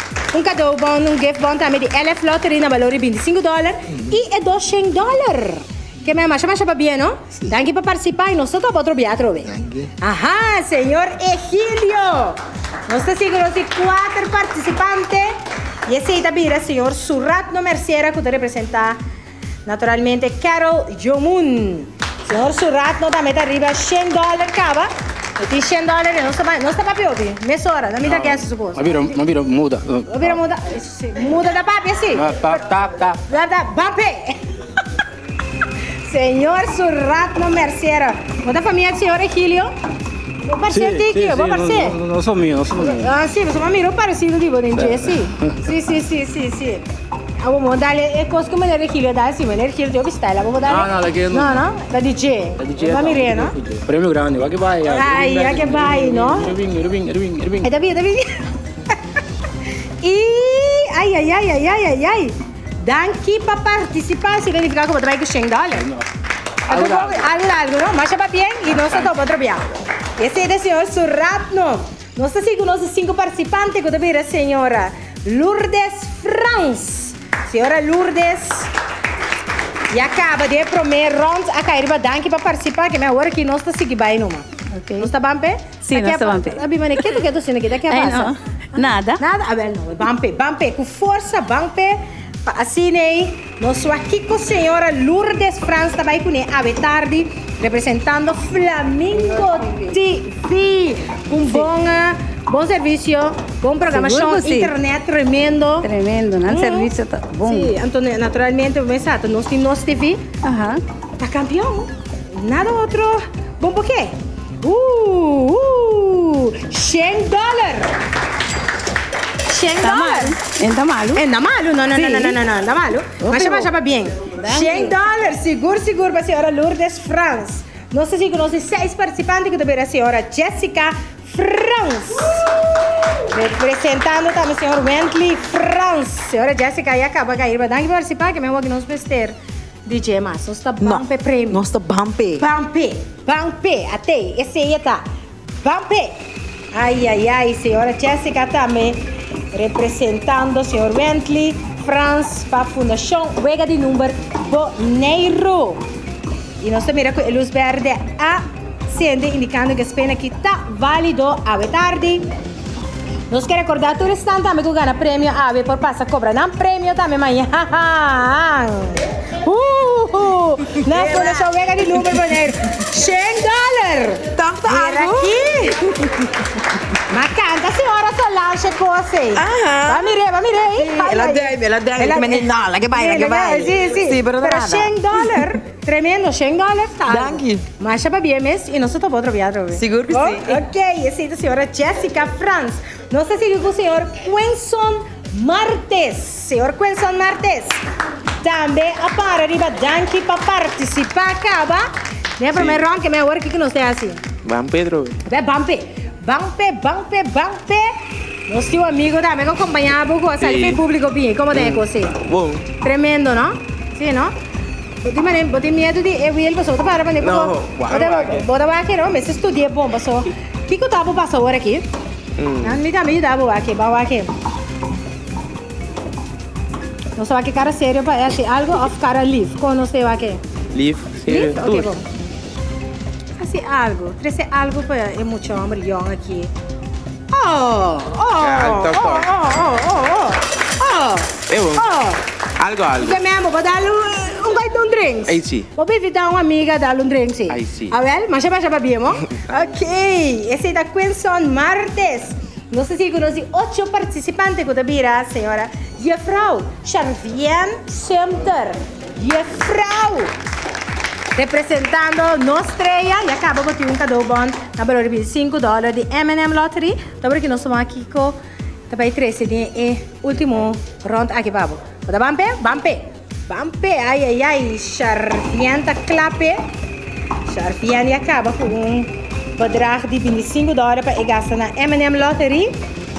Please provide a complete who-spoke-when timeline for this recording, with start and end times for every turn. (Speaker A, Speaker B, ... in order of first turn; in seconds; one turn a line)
Speaker A: 0.3-15.3
Speaker A: 15.9-19.0
Speaker A: 19.7-29.1
Speaker B: 28.0-30.4
Speaker A: 30.1-32.6
Speaker B: 32.1-33.2
Speaker A: 33.3-34.4
Speaker A: 36.1-39.7
Speaker A: 40.5-42.0
Speaker B: 40.7-43.1
Speaker A: 42.9-46.8
Speaker B: 44.7-45.2
Speaker A: 47.4-53.6
Speaker B: 50.6-51.6
Speaker B: 52.6-57.7
Speaker A: 54.9-56.5
Speaker A: 57.6-58.5
Speaker A: 60.0-65.9
Speaker B: 65.7-66.0
Speaker B: 66.7-67.3
Speaker A: 66.7-69.6
Speaker A: 70.2-78.7
Speaker A: 79.9-105.9
Speaker C: 84.7-85.1
Speaker C: 85.8-87.2
Speaker C: 87.9-89.2
Speaker C: 99.2-99.9
Speaker C: 103.9-104.7
Speaker C: 105.8-107.7
Speaker A: 106.5-110.3
Speaker C: 110.4-110.8
Speaker A: 111.2-117.9
Speaker A: 119.5-120.4
Speaker C: 119.8-121.2
Speaker A: 121.1-132.5
Speaker C: 121.9-122.4
Speaker C: 123.2-123.7
Speaker C: 124.3-124.9
Speaker A: 133.3-141.7
Speaker D: 140.8-142.4
Speaker A: 142.4-145.1
Speaker A: 145.6-146.2
Speaker A: 146.7-155.8
Speaker A: 156.6-162.3
Speaker A: 163.3-175.8
Speaker D: 170.9-171.4
Speaker D: 174.3-175.4
Speaker A: 177.1-197.8
Speaker D: 179.3-180.1
Speaker D: 180.8-185.6
Speaker D: 187.1-187.7
Speaker D: 189.7-190.6
Speaker A: 198.4-204.2
Speaker E: 202.5-202.8
Speaker E: 204.4-205.2
Speaker A: 205.2-207.9
Speaker A: 208.5-212.2
Speaker E: 210.4-210.8
Speaker E: 211.5-212.7
Speaker A: 212.8-214.3
Speaker A: 215.0-221.9
Speaker E: 217.2-218.5
Speaker E: 222.4-222.8
Speaker A: 222.6-224.3
Speaker A: 227.2-230.4
Speaker E: 230.7-231.9
Speaker A: 231.3-232.0
Speaker A: 233.4-236.5
Speaker A: 237.3-242.2
Speaker E: 238.4-239.3
Speaker E: 241.5-241.9
Speaker E: 242.6-243.2
Speaker A: 243.0-260.3
Speaker E: 245.3-245.7
Speaker E: 247.5-248.0
Speaker A: 261.4-268.4
Speaker A: 268.9-276.6
Speaker A: 277.5-282.8